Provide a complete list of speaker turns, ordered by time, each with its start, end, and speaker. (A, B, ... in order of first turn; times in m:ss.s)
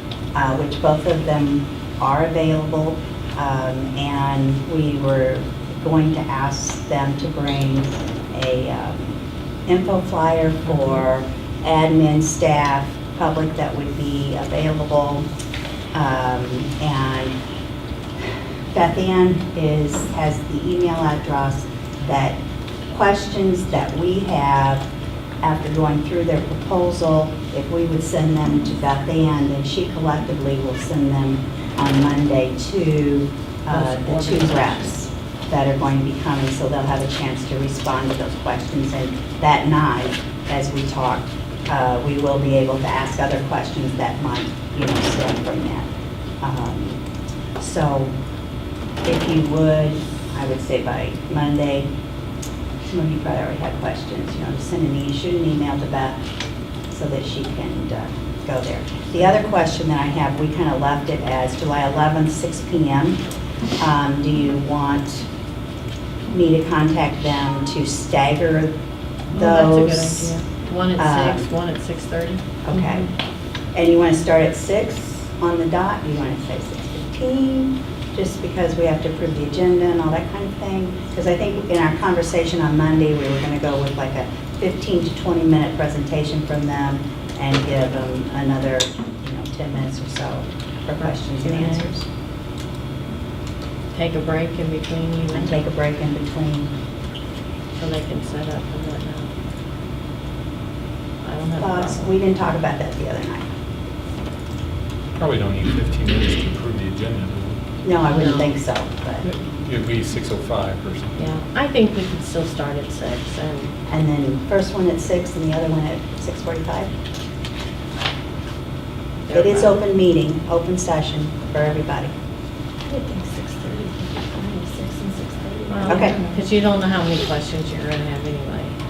0:00.3-0:15.3 A
0:10.7-0:11.0 B
0:15.9-0:17.4 A
0:18.2-0:22.4 A
0:22.9-0:24.9 A
0:25.4-0:45.9 A
0:33.7-0:34.7 C
0:46.4-0:47.0 A
0:47.6-0:48.1 A
0:49.0-0:51.9 A
0:52.9-0:56.2 A
0:56.9-1:03.2 A
1:03.8-1:05.3 A
1:06.3-1:08.8 A
1:09.3-1:10.4 A
1:09.3-1:12.4 B
1:11.0-1:11.5 A
1:12.6-1:13.1 A
1:13.7-1:32.1 A
1:31.0-1:31.9 B
1:33.9-1:35.6 B
1:35.3-1:36.7 A
1:37.8-1:39.3 B
1:41.2-1:42.1 B
1:41.6-1:43.5 A
1:45.2-1:47.6 D
1:47.8-1:49.3 A
1:48.1-1:48.6 B
1:49.2-1:51.2 D
1:51.2-1:53.7 B
1:53.9-1:56.9 A
1:59.3-1:59.8 B
1:59.3-2:02.1 A
2:02.9-2:06.4 C
2:05.7-2:08.8 B
2:05.9-2:06.2 A